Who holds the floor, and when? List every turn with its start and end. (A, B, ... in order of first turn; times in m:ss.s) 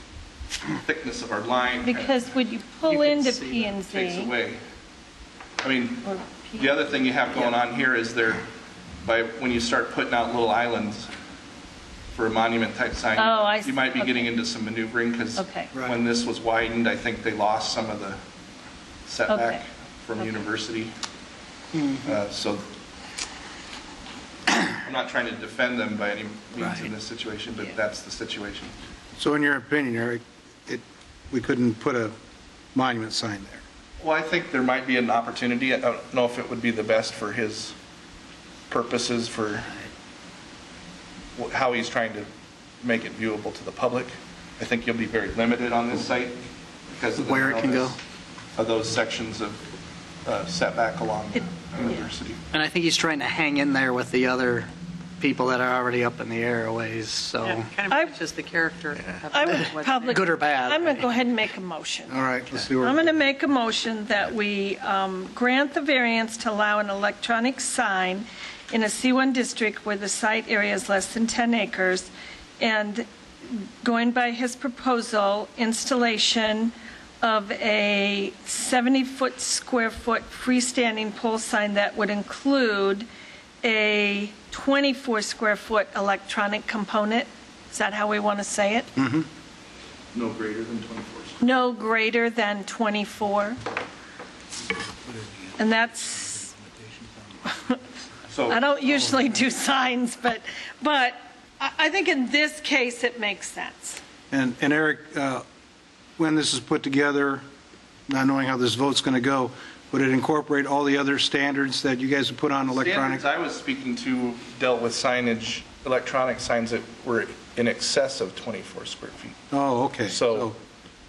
0:00.8-0:02.1 A
0:01.8-0:04.3 B
0:02.9-0:03.7 C
0:03.9-0:04.6 A
0:05.6-0:08.5 A
0:06.0-0:06.8 B
0:09.0-0:11.1 A
0:12.1-0:18.2 A
0:13.2-0:14.4 B
0:15.4-0:15.7 B
0:19.1-0:20.9 A
0:19.3-0:19.6 B
0:22.0-0:22.6 A
0:24.8-0:28.8 A
0:29.2-0:32.2 D
0:32.7-0:33.6 D
0:34.0-0:37.8 A
0:38.7-0:39.7 A
0:41.4-0:42.3 A
0:42.8-0:48.0 A
0:47.2-0:48.0 C
0:48.6-0:49.6 A
0:50.2-0:52.4 A
0:51.3-0:52.1 B
0:52.5-0:57.7 C
0:57.4-1:00.5 E
0:57.9-0:58.2 B
0:59.3-1:02.2 B
0:59.5-1:01.0 C
1:02.1-1:03.1 D
1:02.8-1:23.1 B
1:23.6-1:28.9 B
1:29.0-1:29.3 D
1:30.1-1:31.4 A
1:31.4-1:33.6 B
1:35.6-1:36.6 B
1:37.4-1:37.8 B
1:38.3-1:38.7 A
1:38.5-1:44.0 B
1:44.3-1:45.4 D
1:46.2-1:47.4 D
1:48.1-1:53.2 D
1:52.7-1:59.4 A
1:59.5-2:00.6 D
2:00.1-2:00.5 A